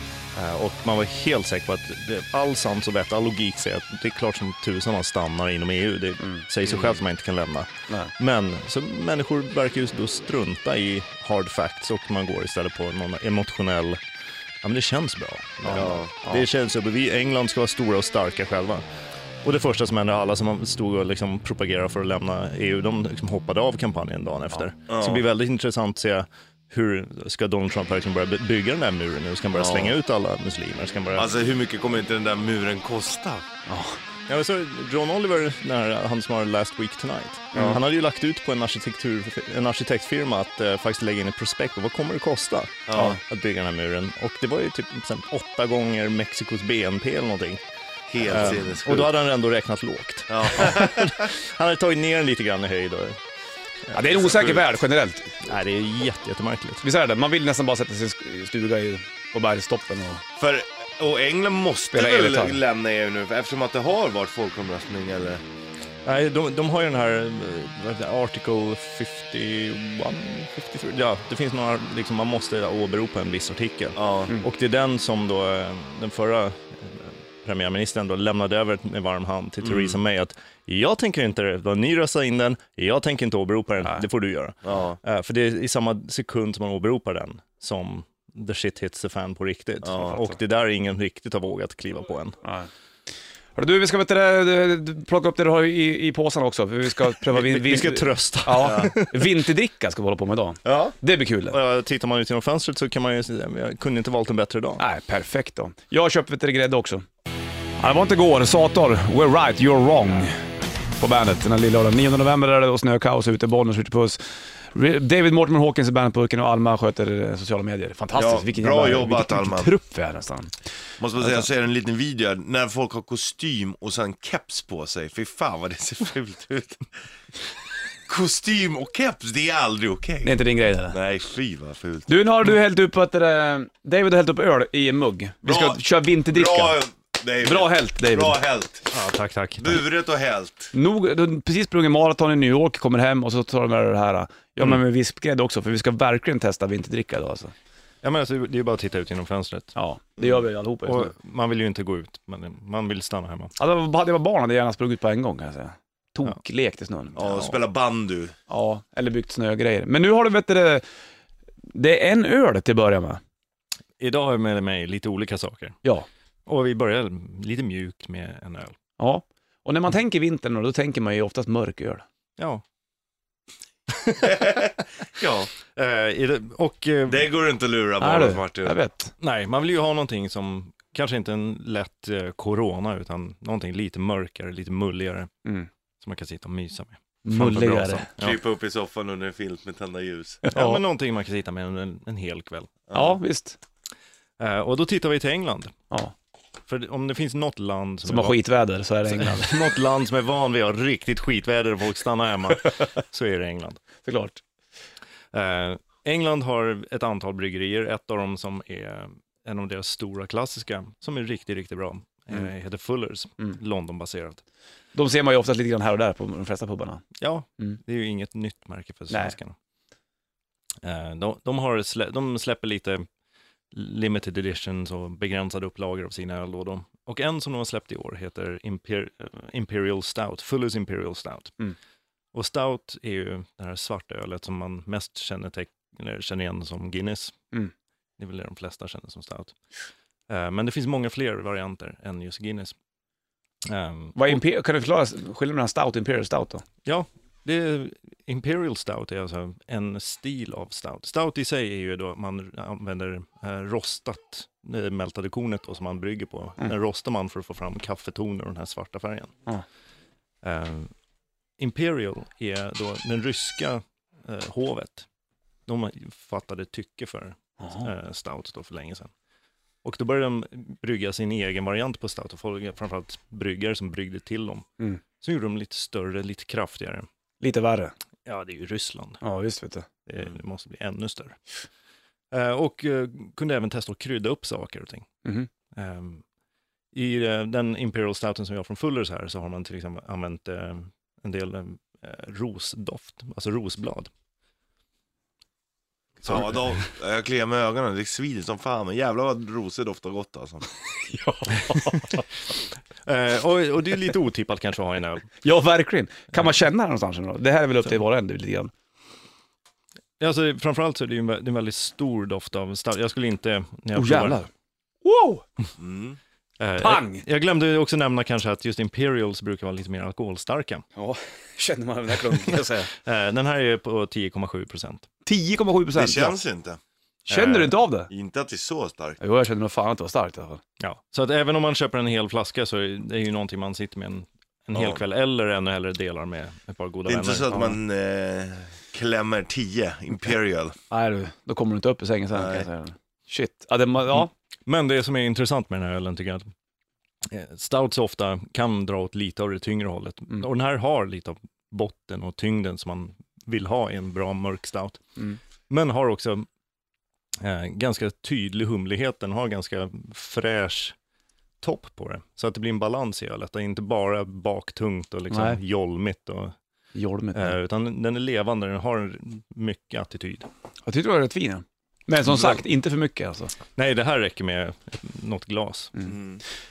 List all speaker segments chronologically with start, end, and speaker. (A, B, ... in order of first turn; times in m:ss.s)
0:00.4-0:14.0 A
0:14.6-0:18.8 A
0:15.6-0:16.4 B
0:15.7-0:16.1 C
0:19.4-0:31.3 A
0:24.9-0:25.2 C
0:29.5-0:30.0 C
0:31.2-0:33.5 C
0:33.7-0:34.0 B
0:34.3-0:47.6 A
0:37.6-0:37.8 C
0:42.9-0:43.2 C
0:48.1-0:49.1 C
0:48.2-0:53.2 A
0:50.3-0:51.3 C
0:53.9-0:54.6 A
0:53.9-0:55.4 B
0:54.2-0:54.6 C
0:55.4-0:56.8 A
0:56.8-1:00.2 B
1:00.4-1:05.4 C
1:01.9-1:02.6 B
1:06.1-1:32.4 A
1:14.0-1:14.3 C
1:19.6-1:20.0 C
1:24.6-1:25.0 C
1:29.8-1:30.2 C
1:30.1-1:30.3 B
1:32.4-1:32.7 B
1:33.6-1:41.6 B
1:37.2-1:39.4 A
1:38.6-1:38.9 C
1:40.6-1:41.0 C
1:41.5-1:44.8 A
1:44.8-1:47.1 B
1:47.8-1:50.4 B
1:51.0-2:00.5 B
1:58.1-1:59.7 C
2:01.0-2:06.9 C
2:01.2-2:01.4 B
2:08.1-2:12.1 C
2:10.2-2:11.0 B
2:12.1-2:16.8 B
2:15.4-2:18.9 C
2:17.4-2:18.4 B
2:18.9-2:19.8 A
2:19.6-2:20.7 C
2:20.7-2:27.5 B
2:28.0-2:29.7 A
2:29.8-2:31.1 B
2:30.8-2:33.5 A
2:33.6-2:37.2 B
2:37.1-2:37.6 A
2:37.2-2:38.4 C
2:38.5-2:40.8 B
2:41.7-2:43.2 B
2:44.0-2:45.8 A
2:46.5-2:48.8 A
2:49.0-2:52.0 B
2:52.4-2:52.6 A
2:53.9-2:54.7 A
2:54.2-2:55.5 C
2:55.6-2:57.3 A
2:57.1-2:58.8 C
2:58.0-2:59.1 B
2:59.2-3:05.3 A
3:06.0-3:08.4 A
3:07.2-3:08.1 B
3:08.2-3:10.4 C
3:10.4-3:10.8 B
3:10.5-3:12.8 A
3:12.9-3:13.2 C
3:12.9-3:13.6 B
3:14.4-3:15.8 A
3:16.7-3:18.4 A
3:18.0-3:19.6 B
3:19.1-3:23.8 A
3:24.0-3:24.4 B
3:25.3-3:34.4 A
3:35.0-3:37.0 B
3:37.2-3:39.6 A
3:39.1-3:39.4 B
3:40.8-3:43.1 A
3:43.7-3:51.6 A
3:52.3-3:57.4 A
3:58.2-3:59.6 A
4:00.3-4:02.8 A
4:03.7-4:04.4 A
4:04.2-4:06.6 B
4:06.8-4:19.4 A
4:20.4-4:20.9 A
4:21.6-4:25.1 A
4:25.7-4:29.1 A
4:27.6-4:27.9 B
4:29.8-4:37.1 A
4:37.4-4:37.9 B
4:38.3-4:39.2 A
4:39.2-4:39.9 B
4:40.1-4:41.4 A
4:42.3-4:45.1 A
4:45.8-4:46.2 A
4:46.9-4:54.1 A
4:56.2-5:00.7 C
5:01.1-5:02.2 B
5:03.0-5:05.3 A
5:05.4-5:08.7 B
5:10.2-5:14.4 A
5:13.9-5:14.5 B
5:15.0-5:15.4 B
5:15.8-5:16.2 C
5:16.6-5:20.8 A
5:16.8-5:17.2 B
5:21.0-5:22.9 B
5:22.3-5:25.1 A
5:25.2-5:26.4 B
5:26.0-5:26.8 C
5:27.3-5:28.1 B
5:27.3-5:27.8 A
5:28.1-5:29.2 C
5:29.2-5:30.6 B
5:30.8-5:37.6 A
5:34.8-5:35.0 C
5:37.1-5:40.8 C
5:40.9-5:44.3 B
5:42.3-5:42.7 C
5:44.7-5:46.5 A
5:47.3-5:56.5 A
5:57.4-6:01.0 A
6:01.6-6:06.6 A
6:05.3-6:05.6 B
6:07.0-6:07.6 B
6:07.3-6:10.5 A
6:10.9-6:13.5 B
6:12.3-6:12.6 A
6:13.8-6:15.9 A
6:16.0-6:16.4 C